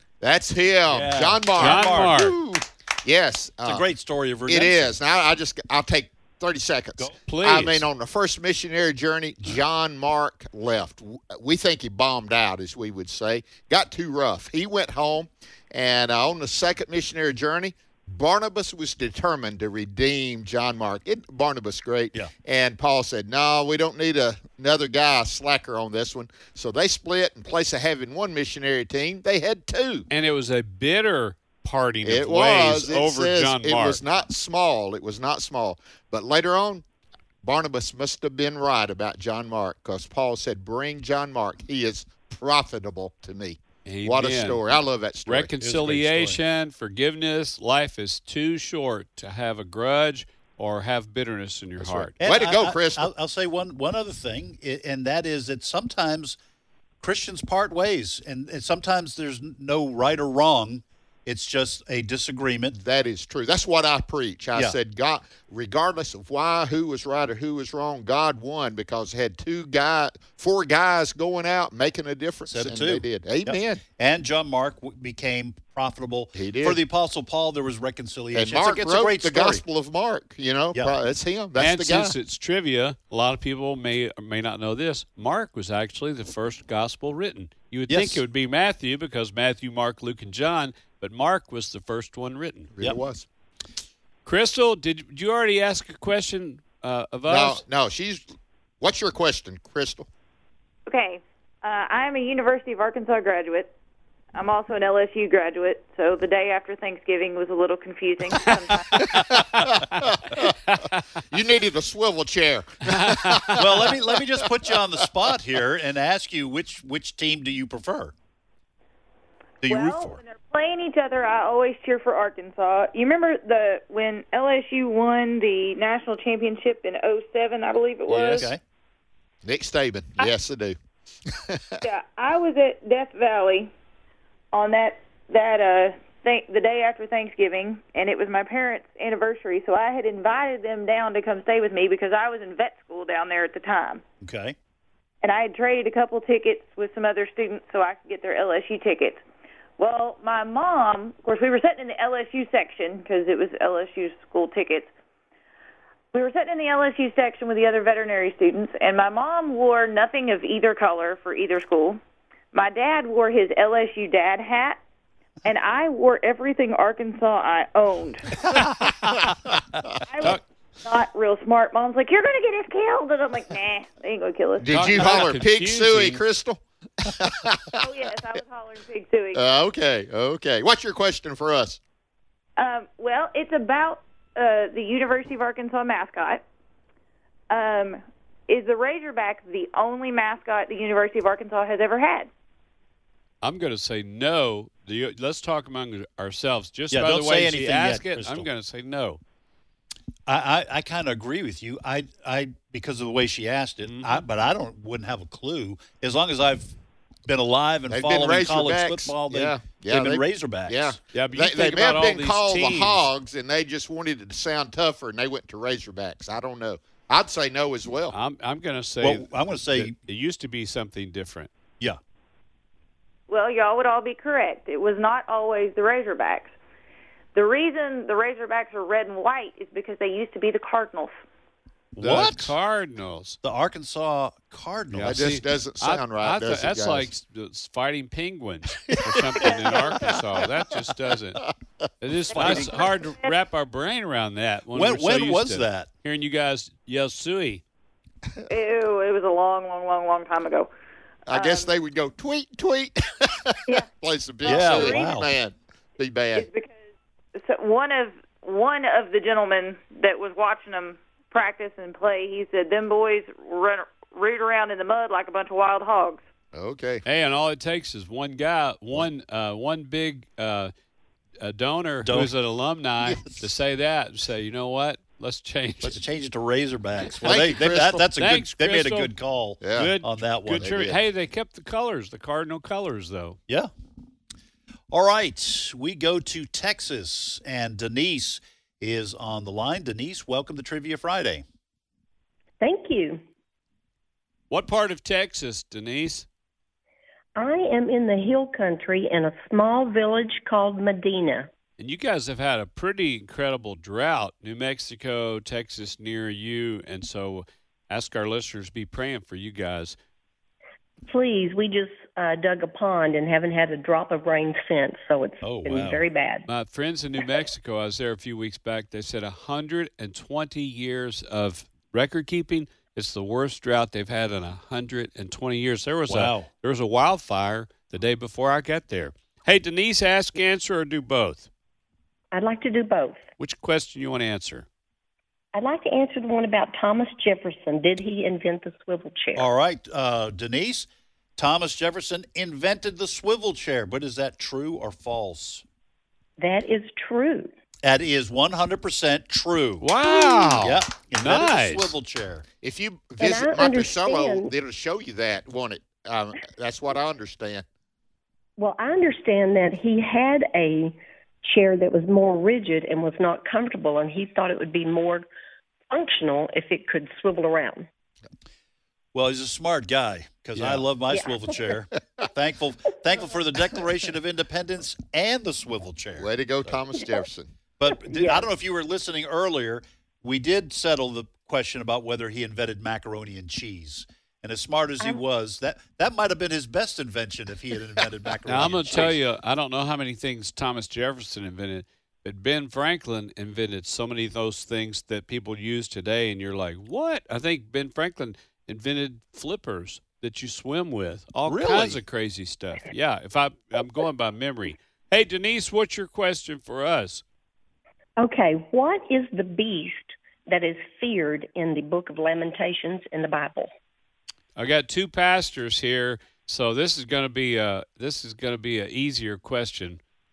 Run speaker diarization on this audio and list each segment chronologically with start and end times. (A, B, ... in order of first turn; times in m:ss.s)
0:00.2-0:03.8 A
0:00.9-0:02.2 B
0:01.6-0:02.4 C
0:03.6-0:04.9 B
0:04.5-0:30.1 A
0:07.3-0:07.9 C
0:30.1-0:34.0 C
0:32.0-0:36.8 A
0:37.4-0:45.5 A
0:43.9-0:44.6 C
0:45.3-0:52.1 C
0:45.6-0:46.4 B
0:51.8-0:53.1 A
0:52.2-0:56.4 B
0:57.0-1:02.8 B
1:02.7-1:13.8 A
1:12.5-1:19.6 B
1:16.4-1:16.8 A
1:18.3-1:22.2 A
1:21.6-1:32.7 C
1:27.9-1:28.2 B
1:32.7-1:33.3 A
1:34.2-1:37.6 C
1:37.3-1:40.1 A
1:40.9-1:43.7 D
1:44.4-1:49.0 D
1:49.0-1:50.6 A
1:50.7-1:51.0 C
1:51.3-1:54.2 A
1:52.9-1:53.7 C
1:53.6-1:58.1 B
1:59.6-2:00.2 B
1:59.7-2:08.5 D
2:08.1-2:08.5 C
2:08.3-2:08.6 B
2:09.4-2:10.8 A
2:11.3-2:11.8 A
2:11.8-2:13.7 D
2:14.5-2:24.0 D
2:24.2-2:24.6 B
2:25.2-2:29.2 D
2:29.8-2:34.9 D
2:36.1-2:42.0 D
2:42.5-2:44.8 D
2:45.4-2:48.4 D
2:49.1-2:49.9 A
2:50.1-2:54.9 D
2:54.6-2:57.8 A
2:54.7-2:56.2 C
2:57.8-2:59.4 D
2:59.3-3:01.8 A
3:02.6-3:06.4 D
3:07.5-3:12.3 D
3:13.4-3:19.2 C
3:16.9-3:18.5 B
3:20.3-3:26.8 B
3:23.9-3:24.2 C
3:27.3-3:31.0 B
3:27.9-3:38.2 A
3:31.1-3:33.1 C
3:38.1-3:41.5 C
3:39.0-3:40.0 B
3:43.3-3:46.5 D
3:47.4-3:51.2 D
3:52.0-3:52.6 B
3:52.0-3:53.4 C
3:53.4-3:55.4 B
3:54.9-4:01.5 C
3:55.0-3:57.1 A
4:02.0-4:07.6 C
4:02.3-4:03.3 D
4:02.3-4:02.8 B
4:04.7-4:05.9 B
4:08.5-4:10.7 D
4:11.3-4:16.5 A
4:11.3-4:11.7 D
4:14.4-4:15.2 D
4:14.4-4:15.3 B
4:16.4-4:16.8 D
4:17.4-4:26.2 D
4:26.5-4:27.0 A
4:27.1-4:30.7 C
4:31.4-4:36.0 C
4:32.0-4:32.3 B
4:35.8-4:40.9 B
4:37.2-4:39.1 C
4:37.2-4:38.1 A
4:39.6-4:39.9 A
4:39.7-4:43.4 C
4:40.6-4:41.0 A
4:44.9-4:51.4 B
4:52.6-4:53.2 E
4:54.5-4:56.3 C
4:57.4-5:01.5 E
5:01.8-5:10.0 C
5:11.1-5:16.5 E
5:15.4-5:16.1 B
5:16.5-5:31.5 C
5:26.1-5:26.5 B
5:32.3-5:33.2 E
5:33.4-5:34.7 C
5:35.5-5:39.5 E
5:39.4-5:45.6 B
5:46.4-5:47.5 E
5:47.8-5:49.9 B
5:49.8-5:51.9 C
5:50.0-5:50.8 A
5:50.6-5:52.5 B
5:52.6-5:57.6 A
5:53.2-5:54.5 E
5:58.6-6:05.3 E
6:05.9-6:07.9 E
6:09.1-6:16.7 B
6:10.6-6:10.8 C
6:11.1-6:11.8 E
6:16.2-6:17.5 A
6:17.8-6:29.2 B
6:18.0-6:18.5 E
6:28.5-6:47.2 C
6:41.4-6:42.0 B
6:48.2-6:53.7 E
6:54.6-7:00.0 C